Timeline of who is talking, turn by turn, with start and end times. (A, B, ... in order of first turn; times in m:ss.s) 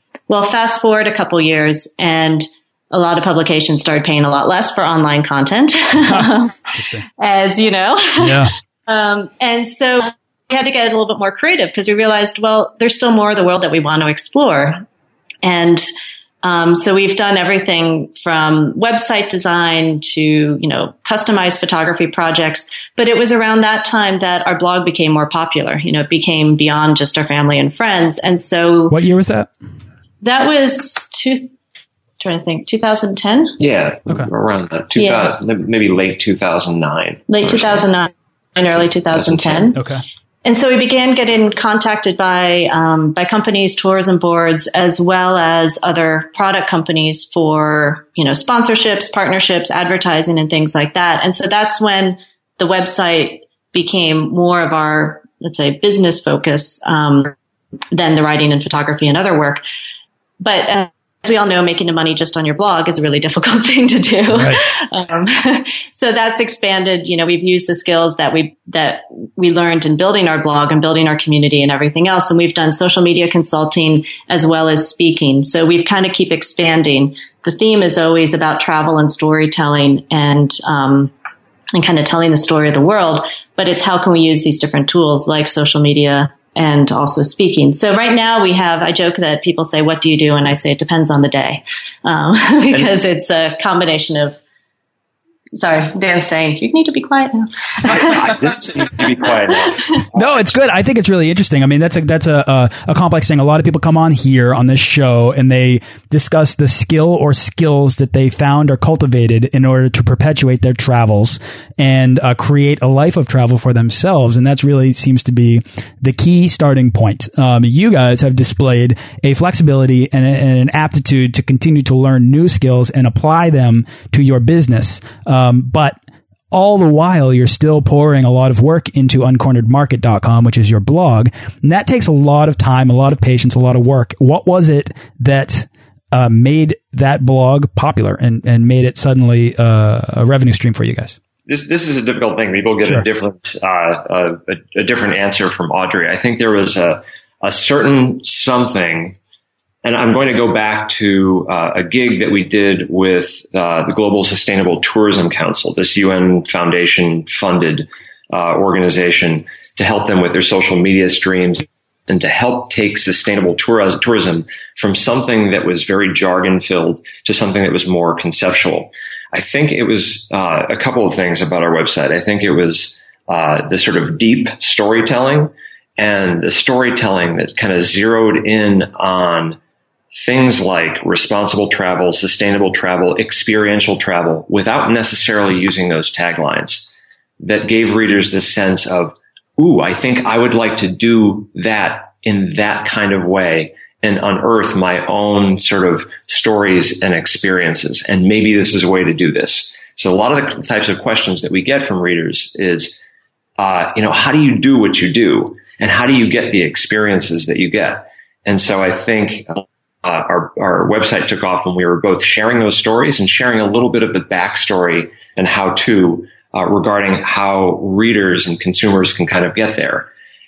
0:00.3-0:14.8 A
0:06.8-0:07.0 B
0:08.2-0:08.5 B
0:15.4-0:15.9 A
0:16.4-0:29.0 A
0:28.9-0:29.5 B
0:30.2-0:31.5 A
0:32.2-0:33.6 A
0:33.6-0:37.8 C
0:35.0-0:35.3 A
0:37.3-0:39.8 A
0:39.1-0:39.7 C
0:39.8-0:40.0 B
0:40.4-0:57.3 A
0:57.9-0:59.6 A
1:00.4-1:21.1 A
1:04.3-1:04.6 B
1:21.7-1:34.4 A
1:35.5-1:38.2 A
1:37.8-1:40.5 C
1:39.7-1:40.0 A
1:40.1-2:06.0 B
2:06.5-2:21.2 B
2:21.5-2:29.2 C
2:29.8-2:59.6 C
3:00.1-3:23.0 C
3:23.6-3:40.1 C